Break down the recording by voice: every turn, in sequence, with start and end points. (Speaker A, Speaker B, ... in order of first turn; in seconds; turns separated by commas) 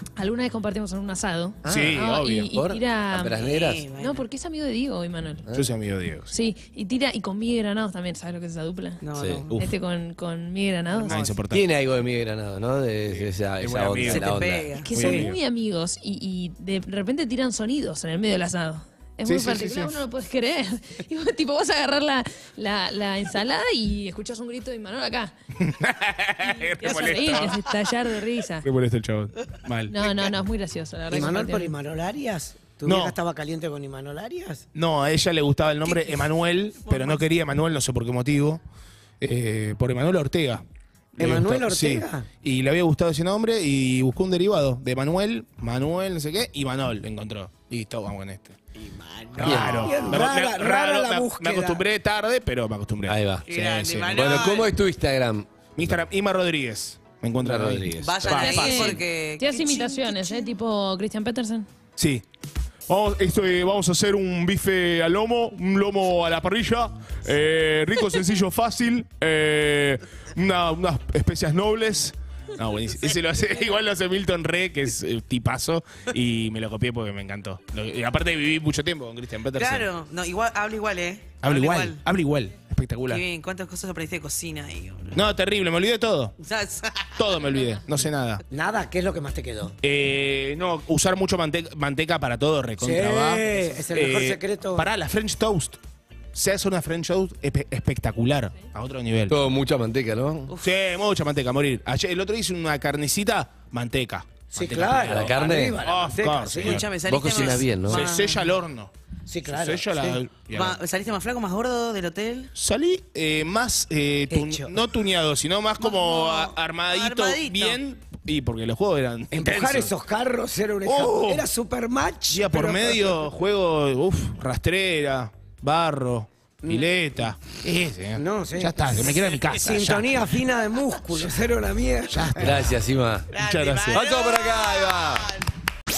Speaker A: 0.1-3.4, Speaker B: 1.6-3.8, Speaker C: 1.6-2.5, Speaker D: 3.3-4.2, Speaker A: 4.0-5.5, Speaker B: 5.5-5.7, Speaker C: 5.5-6.3, Speaker A: 6.3-9.0, Speaker D: 9.0-9.6, Speaker B: 9.2-9.4, Speaker C: 9.5-9.7, Speaker A: 9.6-11.1, Speaker D: 11.0-11.4, Speaker C: 11.0-11.6, Speaker B: 11.5-14.7, Speaker C: 13.2-14.2, Speaker D: 14.0-15.1, Speaker A: 14.8-25.3, Speaker C: 14.9-15.4, Speaker C: 19.2-19.9, Speaker C: 25.6-27.6, Speaker A: 26.4-28.6, Speaker D: 26.9-27.5, Speaker C: 28.6-30.1, Speaker A: 29.9-31.7, Speaker E: 31.1-34.6, Speaker C: 32.8-33.1, Speaker C: 34.7-38.6, Speaker D: 35.9-36.3, Speaker D: 36.9-37.2, Speaker C: 39.2-40.6, Speaker C: 41.2-48.6, Speaker E: 41.2-42.2, Speaker D: 48.8-50.0, Speaker E: 49.3-51.8, Speaker C: 49.4-54.5, Speaker B: 49.4-49.9, Speaker B: 53.1-53.5, Speaker D: 53.5-54.7, Speaker B: 54.1-56.0, Speaker C: 55.8-59.0, Speaker B: 57.4-58.4, Speaker D: 58.0-60.5, Speaker A: 58.3-61.7, Speaker C: 62.0-62.2, Speaker C: 62.9-79.9, Speaker D: 79.5-82.0, Speaker C: 81.4-83.2, Speaker D: 83.1-85.2, Speaker C: 85.1-86.3, Speaker D: 86.4-87.5, Speaker C: 87.2-88.4, Speaker E: 88.5-89.8, Speaker C: 89.8-95.8, Speaker E: 92.8-94.9, Speaker C: 96.3-99.4, Speaker B: 99.3-100.5, Speaker C: 100.6-108.9, Speaker E: 104.5-106.8, Speaker B: 104.8-105.8, Speaker D: 106.5-108.5, Speaker B: 107.0-108.1, Speaker E: 109.3-110.2, Speaker C: 109.5-110.8, Speaker D: 110.5-112.5, Speaker C: 112.5-119.9, Speaker E: 114.3-114.7, Speaker D: 115.8-117.8, Speaker E: 119.3-123.3, Speaker C: 120.8-121.5, Speaker C: 122.3-130.3, Speaker E: 126.6-126.9, Speaker E: 128.2-132.5, Speaker C: 132.1-132.7, Speaker B: 132.4-133.3, Speaker C: 133.3-134.0, Speaker D: 133.3-135.4, Speaker B: 133.9-135.3